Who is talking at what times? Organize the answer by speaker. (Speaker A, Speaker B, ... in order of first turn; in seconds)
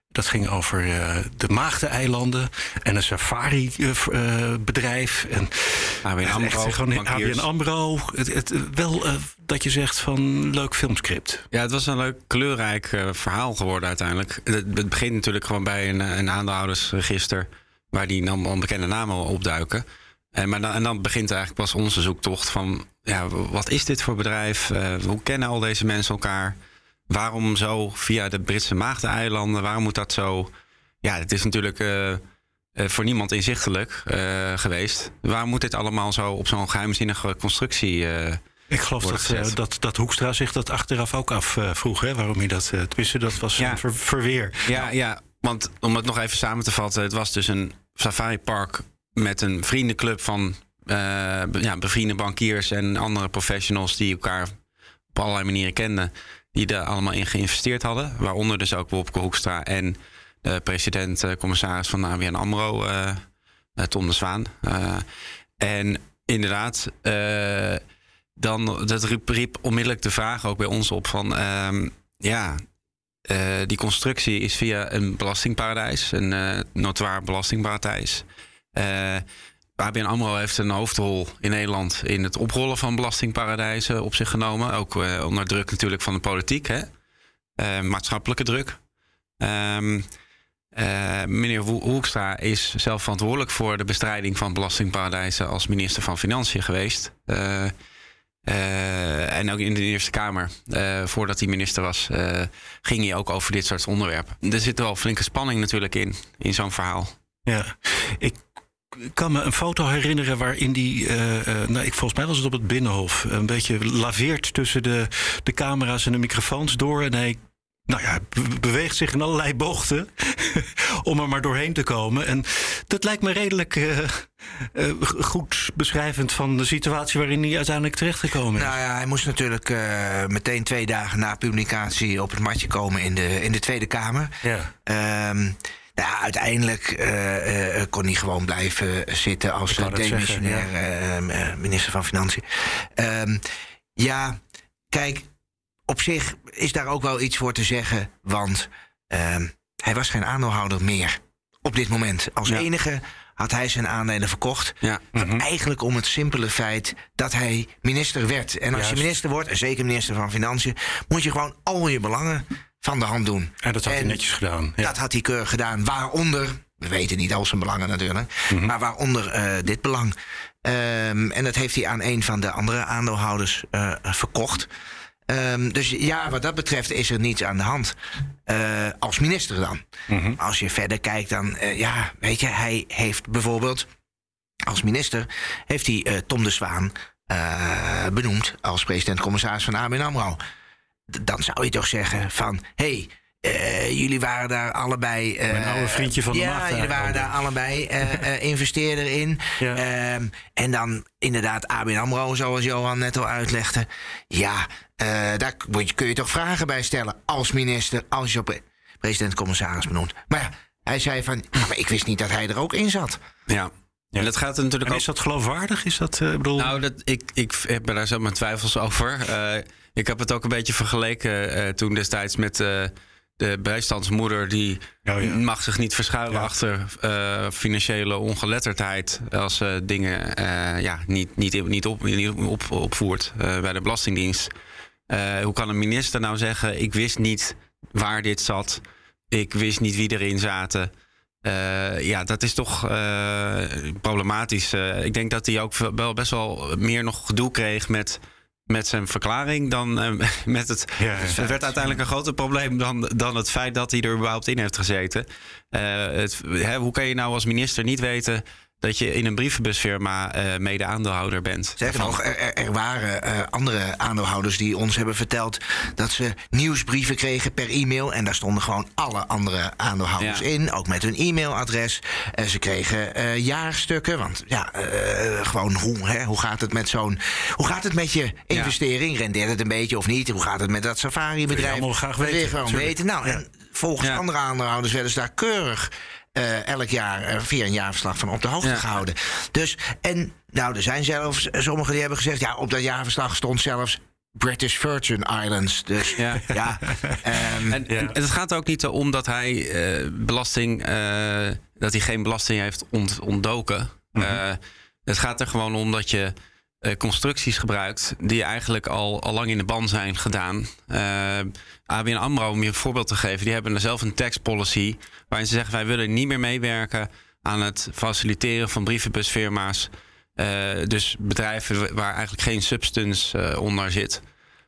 Speaker A: 0.1-11.4, 38.7-44.9, 107.5-128.7, 134.4-134.7, 139.7-140.7, 155.2-155.4, 158.7-159.1, 163.6-164.9, 180.1-180.4, 195.5-197.3, 214.8-216.8, 225.1-225.4, 251.0-251.4, 281.5-283.4, 297.9-298.1, 304.1-304.4
Speaker B: 6.0-7.5, 11.5-26.6, 27.1-30.5, 31.0-32.2, 32.8-38.4, 39.0-39.5, 43.6-43.8, 44.7-54.5, 55.1-63.2, 63.8-65.0, 65.6-67.8, 68.4-72.6, 73.3-79.2, 79.8-86.9, 87.6-88.8, 89.4-90.1, 90.8-97.7, 98.5-107.1, 213.5-215.1, 216.6-234.5, 235.1-240.9, 241.4-262.2, 270.2-270.4, 296.2-296.4, 297.7-324.2
Speaker C: 128.6-143.4, 144.0-144.4, 144.9-145.3, 145.9-164.2, 164.8-174.7, 175.3-177.9, 178.5-183.9, 184.7-190.4, 191.1-213.2, 261.8-297.8